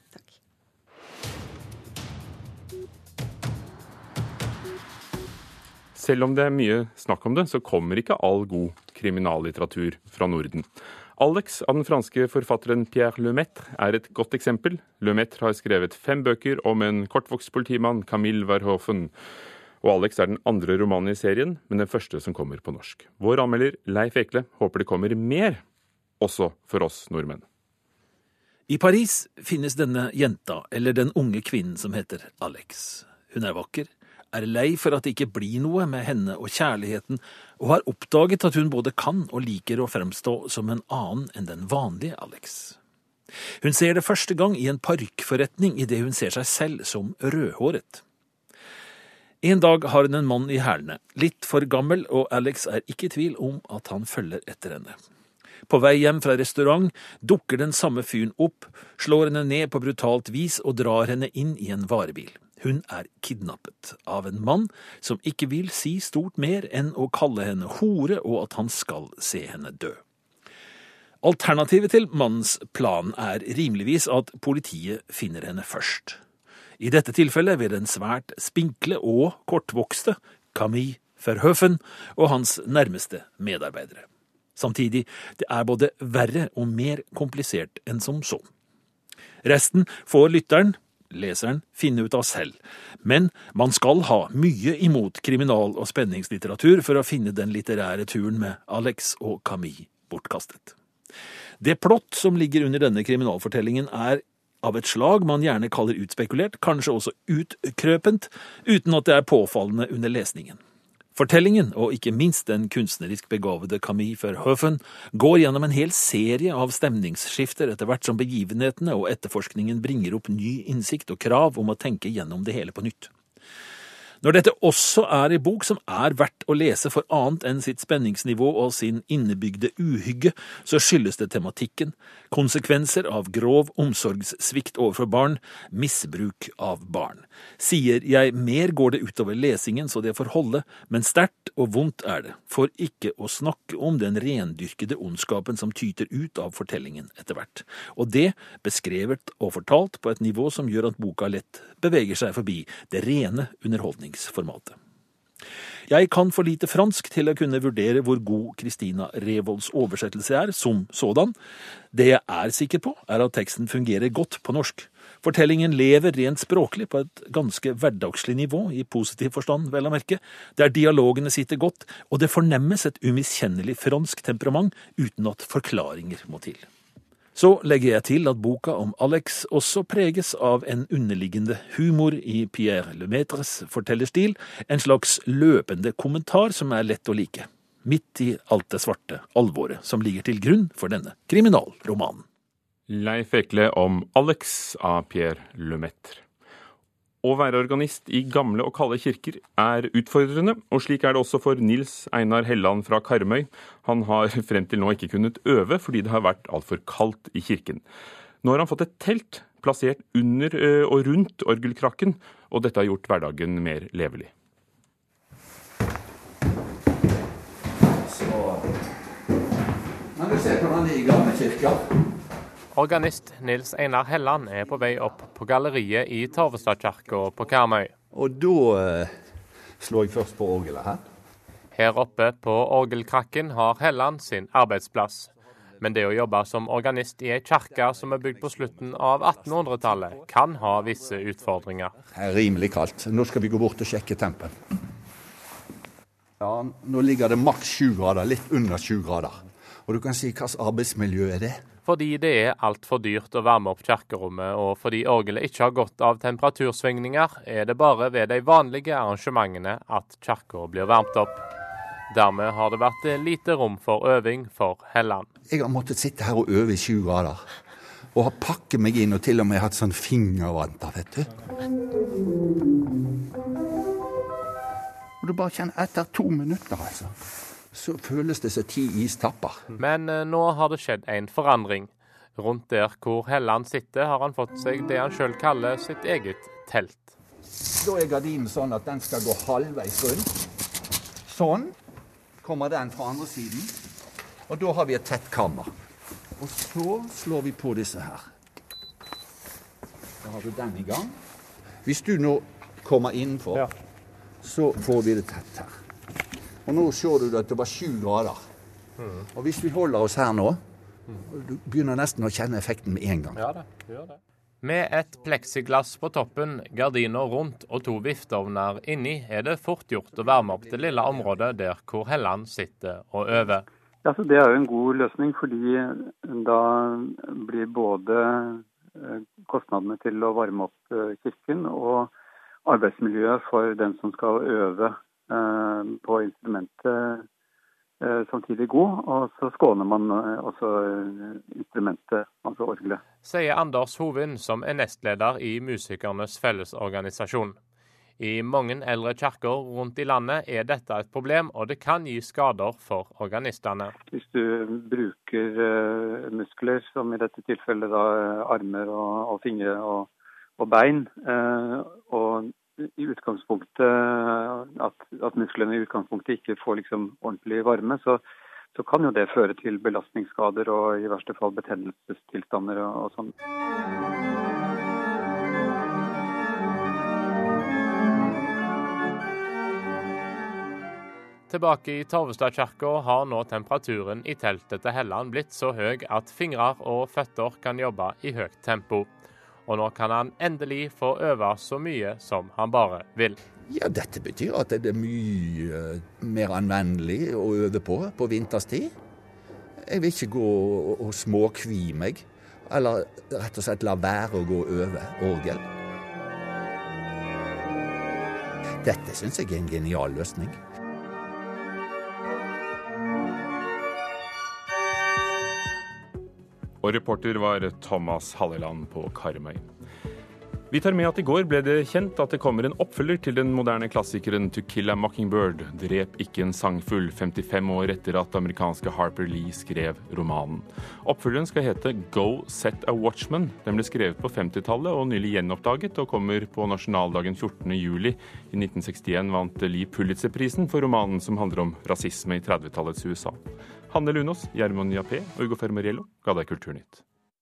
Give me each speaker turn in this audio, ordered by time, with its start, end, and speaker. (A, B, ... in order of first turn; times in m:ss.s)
0:06.0-0:19.1 A
0:19.8-0:25.6 A
0:26.2-0:27.4 A
0:28.7-0:42.8 B
0:43.6-0:48.0 B
0:49.4-0:55.0 B
0:55.7-1:10.0 B
1:11.2-1:16.2 B
1:16.8-1:28.5 B
1:29.4-1:40.7 B
1:41.6-1:50.6 B
1:51.2-2:03.1 B
2:04.2-2:34.8 B
2:35.9-2:41.4 B
2:41.9-2:56.7 B
2:57.4-3:12.2 B
3:12.9-3:16.2 A
3:17.2-3:27.8 A
3:28.4-3:34.3 A
3:38.0-3:38.8 C
3:40.2-3:41.8 C
3:42.7-3:47.9 D
3:48.1-3:51.0 C
3:51.7-4:02.0 D
4:02.1-4:04.6 C
4:06.4-4:11.6 C
4:11.8-4:21.4 D
4:22.1-4:25.3 D
4:25.5-4:27.5 C
4:28.1-4:31.4 C
4:35.2-4:37.1 C
4:37.7-4:39.7 C
4:39.8-4:47.1 D
4:47.8-4:50.4 C
4:51.3-4:51.7 C
4:52.4-4:53.7 C
4:54.5-4:55.7 C
4:56.4-4:58.3 C
5:00.2-5:01.2 C
5:01.8-5:03.7 C
5:04.4-5:05.7 C
5:06.6-5:08.4 C
5:09.3-5:10.6 C
5:11.3-5:13.5 C
5:14.6-5:23.7 D
5:24.0-5:32.1 E
5:32.7-5:37.3 E
5:38.0-5:43.0 E
5:43.2-5:47.6 D
5:48.2-5:53.9 D
5:54.1-6:08.2 E
6:08.7-6:13.3 E
6:21.5-6:29.1 D
6:29.7-6:33.4 D
6:33.7-6:38.9 C
6:39.8-6:45.6 C
6:48.8-6:50.6 C
6:56.8-6:59.6 A
7:00.7-7:27.0 A